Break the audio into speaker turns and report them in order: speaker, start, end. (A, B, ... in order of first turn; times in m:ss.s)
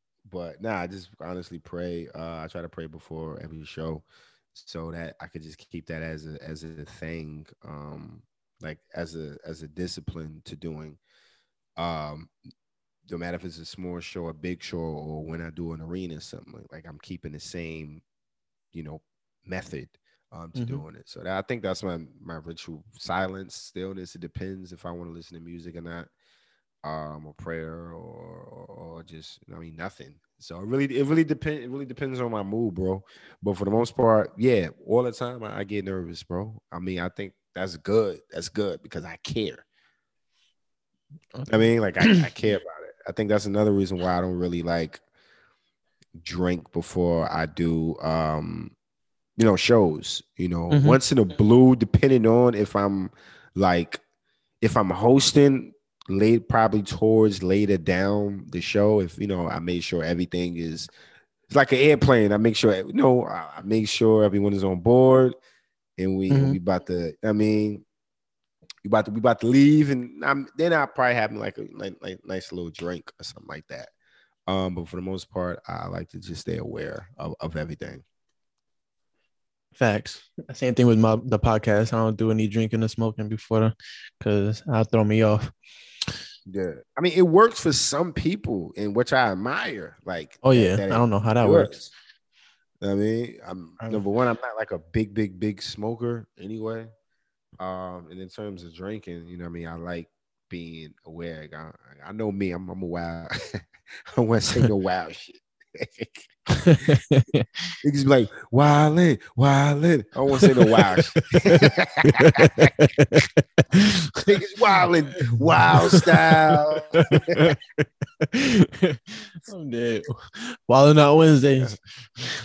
0:00.2-0:11.0 A
0:11.8-0:12.3 A
0:13.1-0:18.0 A
0:18.7-0:26.1 A
0:20.5-0:20.8 B
0:26.8-0:39.6 A
0:41.4-0:42.3 B
0:41.5-0:45.0 A
0:46.2-0:48.7 A
0:49.4-0:54.0 A
0:50.7-0:51.0 B
0:54.6-1:00.9 A
1:01.5-1:05.4 A
1:06.0-1:07.8 A
1:06.3-1:06.6 B
1:08.8-1:13.9 A
1:14.5-1:18.0 A
1:19.8-1:25.5 B
1:26.5-1:31.9 A
1:30.4-1:31.8 B
1:32.8-1:36.9 A
1:37.6-1:46.3 A
1:46.5-1:47.6 B
1:47.8-1:52.7 A
1:50.4-1:54.4 B
1:54.3-1:57.5 A
1:55.4-1:57.6 B
1:58.2-2:02.3 B